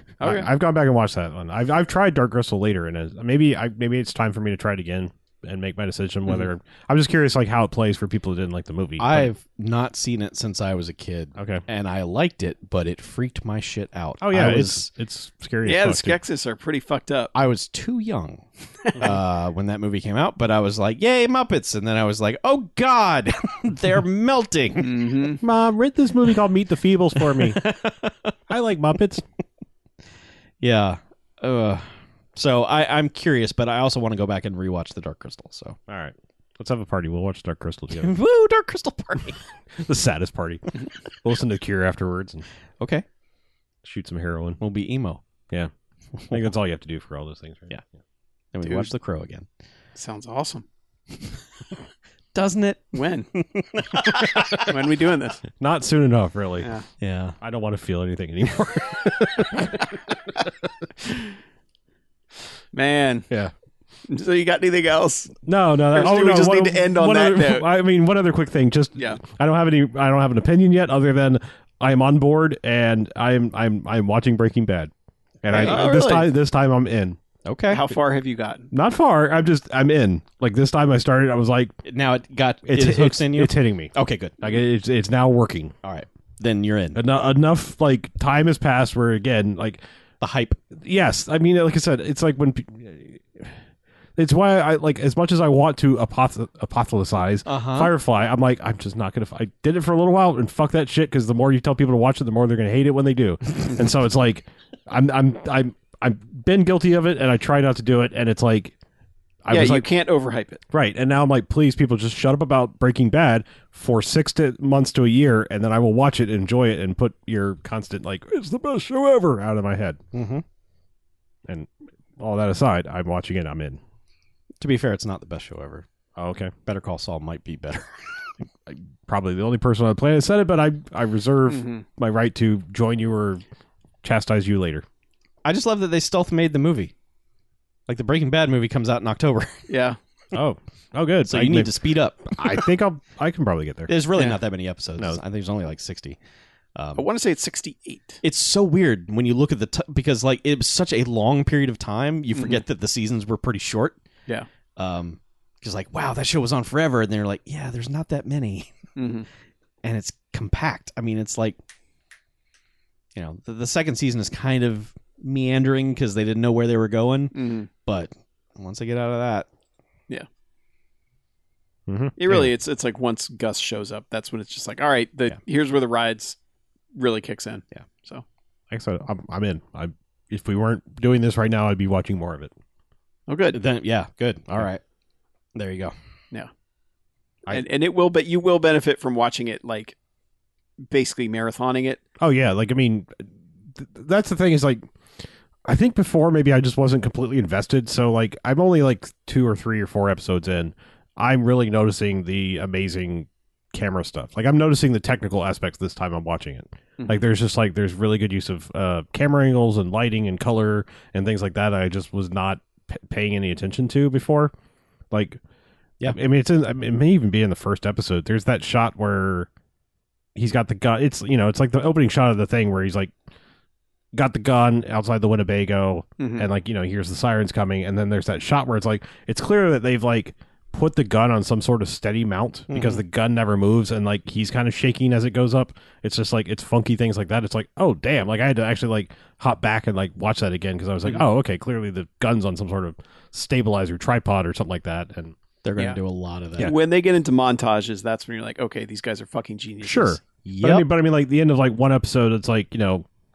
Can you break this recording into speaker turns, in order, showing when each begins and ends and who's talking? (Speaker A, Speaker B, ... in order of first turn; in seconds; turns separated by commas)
Speaker A: 0.2-0.5, Speaker B: 0.2-9.3, Speaker C: 9.0-14.9, Speaker B: 11.4-11.6, Speaker B: 14.2-16.2, Speaker A: 15.7-17.3, Speaker C: 17.3-25.1, Speaker A: 24.8-25.4, Speaker B: 25.4-27.8, Speaker C: 27.2-28.3, Speaker B: 28.5-29.2, Speaker C: 30.6-35.8, Speaker B: 35.9-38.2, Speaker C: 38.0-39.4, Speaker B: 39.8-42.4, Speaker C: 42.8-43.0, Speaker B: 43.8-44.6, Speaker C: 44.6-45.2, Speaker B: 46.3-47.8, Speaker C: 48.5-49.5, Speaker A: 48.6-48.9, Speaker A: 49.9-50.6, Speaker C: 52.3-54.7, Speaker A: 52.9-53.3, Speaker A: 53.9-55.4, Speaker B: 55.5-56.7, Speaker C: 57.0-57.4, Speaker B: 57.4-60.9, Speaker A: 62.7-63.3, Speaker A: 64.1-65.3, Speaker B: 65.5-74.9, Speaker A: 65.9-67.7, Speaker B: 75.4-77.2, Speaker A: 75.5-76.3, Speaker C: 75.6-75.9, Speaker C: 77.4-77.8, Speaker A: 77.7-78.7, Speaker B: 78.7-81.7, Speaker C: 81.8-84.5, Speaker B: 82.7-85.7, Speaker C: 85.8-87.0, Speaker B: 86.9-89.8, Speaker C: 90.2-90.6, Speaker B: 90.7-93.6, Speaker B: 94.2-108.7, Speaker C: 97.5-97.9, Speaker B: 109.4-109.9, Speaker A: 109.5-110.6, Speaker B: 110.7-120.0, Speaker C: 120.1-120.4, Speaker B: 121.5-123.8, Speaker C: 124.6-125.8, Speaker B: 126.2-126.5, Speaker C: 126.7-128.3, Speaker B: 128.7-133.4, Speaker A: 131.5-131.8, Speaker B: 134.0-134.8, Speaker C: 135.4-136.9, Speaker C: 137.9-139.7, Speaker A: 139.7-140.0, Speaker B: 140.3-141.7, Speaker C: 141.2-142.7, Speaker B: 142.3-143.9, Speaker C: 143.9-146.2, Speaker C: 146.8-147.1, Speaker A: 146.9-148.2, Speaker C: 148.2-154.0, Speaker A: 152.3-152.6, Speaker C: 154.8-158.8, Speaker A: 158.9-159.3, Speaker C: 159.8-161.6, Speaker C: 163.1-169.5, Speaker A: 167.3-167.7, Speaker B: 171.9-172.5, Speaker A: 172.2-176.3, Speaker A: 176.9-178.2, Speaker B: 178.7-182.5, Speaker A: 183.3-183.6, Speaker C: 183.5-184.8, Speaker C: 185.5-185.9, Speaker A: 187.5-189.9, Speaker A: 190.9-192.0, Speaker B: 192.2-194.9, Speaker B: 195.7-214.5, Speaker B: 215.1-215.4, Speaker B: 216.0-219.5, Speaker B: 220.3-223.1, Speaker B: 224.1-245.3, Speaker A: 226.2-226.4, Speaker C: 232.7-233.0, Speaker C: 245.6-246.7, Speaker A: 246.6-250.2, Speaker B: 249.8-253.0, Speaker C: 250.4-250.8